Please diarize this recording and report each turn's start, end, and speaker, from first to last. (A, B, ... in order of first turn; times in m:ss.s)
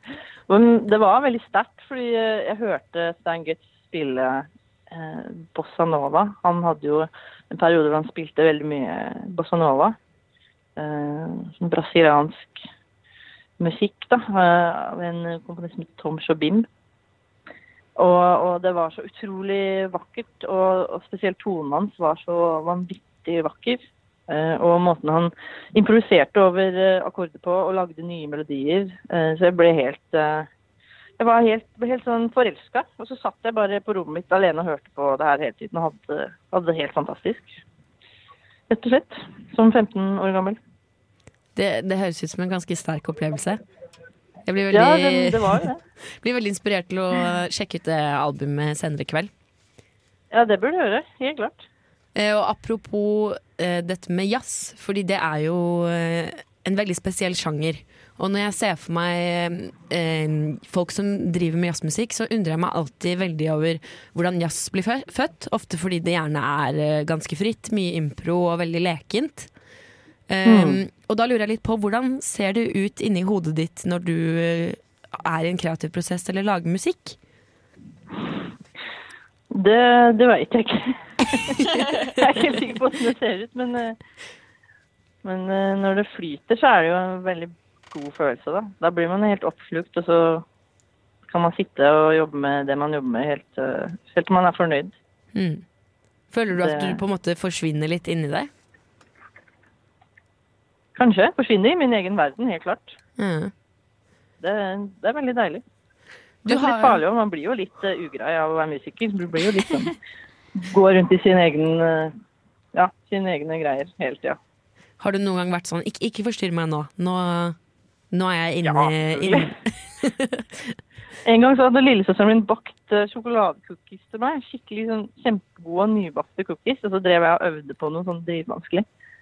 0:00.5-0:10.0 A
0:10.8-0:12.6 A
0:13.6-0:16.7 A
0:18.0-0:30.5 A
0:31.2-0:37.5 A
0:38.7-0:40.6 A
0:41.6-0:43.6 B
0:44.4-0:45.7 B
0:44.7-0:45.8 A
0:46.2-0:49.3 B
0:50.3-0:51.6 A
0:52.1-1:09.5 B
1:10.3-1:17.2 B
1:10.4-1:10.8 A
1:19.5-1:21.0 A
1:21.5-1:24.0 A
1:25.2-1:30.4 A
1:31.3-1:35.0 A
1:35.4-1:35.6 B
1:36.3-1:38.5 B
1:36.5-1:37.0 A
1:41.0-1:43.0 A
1:43.2-1:43.5 B
1:44.4-1:45.6 A
1:46.4-1:47.0 B
1:46.5-1:50.0 A
1:50.6-1:52.1 A
1:52.7-1:54.4 A
1:55.0-1:57.6 B
1:58.1-2:00.7 B
1:58.6-1:59.5 A
2:01.3-2:08.8 A